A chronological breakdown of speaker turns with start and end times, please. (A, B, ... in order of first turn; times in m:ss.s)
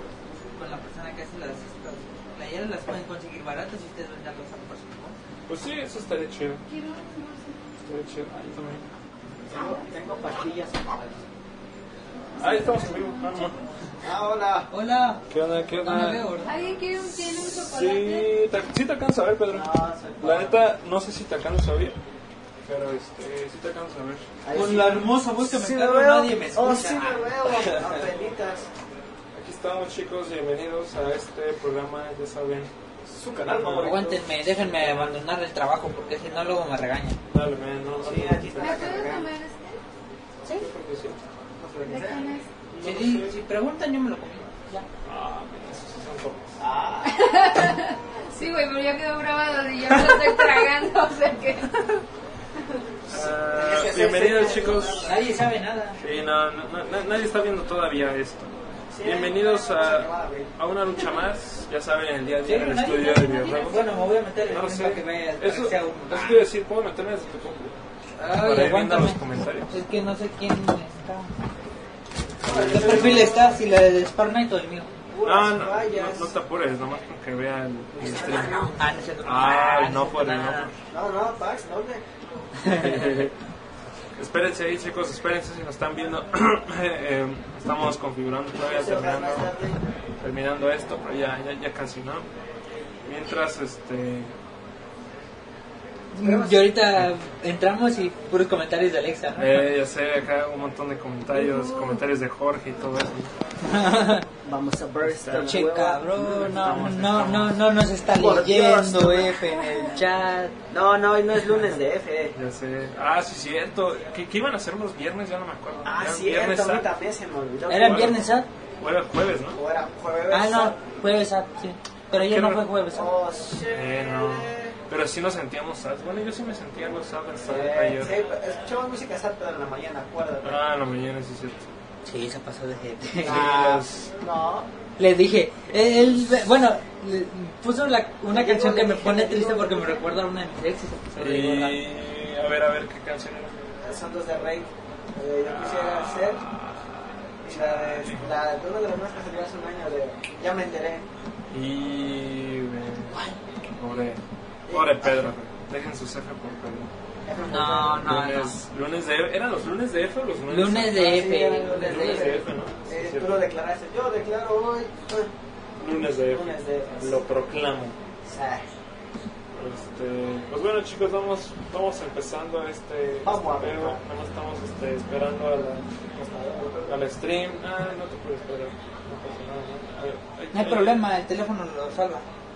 0:00.5-0:05.2 A
0:05.5-0:06.6 B
0:06.7-0:07.5 C
0:07.8-0:08.9 B
0:09.4-0:11.2 D
0:12.4-0:13.6 B
0:12.4-0:13.5 C
0:14.0-0:14.7 D
0:14.7-0:15.2 A
0:15.3-0:16.3 B
0:15.8-0:16.5 A
0:16.4-0:18.3 C
0:17.6-0:22.0 B
0:19.5-0:20.6 D
0:22.6-0:24.2 B
0:24.4-0:28.7 D
0:24.5-0:27.1 A
0:27.6-0:27.9 B
0:29.3-0:32.7 B
0:33.1-0:34.2 D
0:33.3-0:35.2 B
0:33.8-0:37.2 A
0:37.3-0:39.1 B
0:38.0-0:39.3 D
0:38.6-0:39.8 C
0:40.5-0:41.2 B
0:41.6-0:42.3 D
0:41.8-0:42.4 C
0:42.7-0:43.4 B
0:42.8-0:44.8 A
0:45.0-0:46.5 B
0:46.6-0:47.5 D
0:47.0-0:52.0 C
0:53.1-0:55.1 D
0:53.1-0:55.1 B
0:55.0-0:56.0 A
0:56.0-1:03.8 B
0:58.9-1:00.5 D
1:02.4-1:06.4 A
1:04.4-1:07.8 B
1:08.2-1:11.3 A
1:08.3-1:09.7 B
1:12.4-1:13.3 B
1:12.4-1:13.3 D
1:12.7-1:14.9 A
1:15.1-1:16.3 D
1:15.2-1:18.7 B
1:17.9-1:18.8 D
1:18.7-1:20.7 A
1:19.2-1:20.7 B
1:20.9-1:22.0 D
1:22.6-1:23.1 A
1:22.6-1:23.3 B
1:24.2-1:29.5 B
1:28.6-1:29.8 D
1:30.2-1:32.3 B
1:33.0-1:34.3 B
1:36.1-1:39.6 A
1:36.2-1:36.7 D
1:39.4-1:43.3 B
1:41.3-1:42.0 D
1:43.6-1:44.2 A
1:44.4-1:46.0 D
1:45.0-1:47.6 B
1:45.3-1:50.5 A
1:48.1-1:49.4 D
1:50.7-1:52.3 D
1:52.3-1:56.9 B
1:55.8-1:58.2 D
1:57.7-1:58.5 A
1:57.8-1:58.2 B
1:58.8-1:59.6 B
1:59.5-2:00.8 D
2:00.3-2:03.1 A
2:02.1-2:02.6 B
2:02.9-2:04.7 D
2:03.7-2:08.1 B
2:07.5-2:10.6 D
2:10.4-2:11.7 B
2:12.0-2:13.4 A
2:13.2-2:14.7 D
2:13.2-2:14.1 B
2:15.0-2:21.8 A
2:18.3-2:20.1 D
2:21.2-2:23.5 B
2:23.8-2:26.4 D
2:25.5-2:28.3 B
2:27.4-2:31.0 D
2:31.5-2:33.2 B
2:33.8-2:36.9 B
2:34.7-2:35.3 D
2:37.2-2:38.1 D
2:37.5-2:38.6 A
2:38.0-2:41.1 B
2:40.5-2:42.4 A
2:40.9-2:45.3 D
2:41.8-2:43.4 B
2:45.8-2:48.0 B
2:45.9-2:47.3 D
2:48.2-2:48.7 D
2:49.5-2:55.9 B
2:53.2-2:54.0 D
2:56.1-2:57.0 D
2:56.8-3:01.0 B
3:00.5-3:02.2 A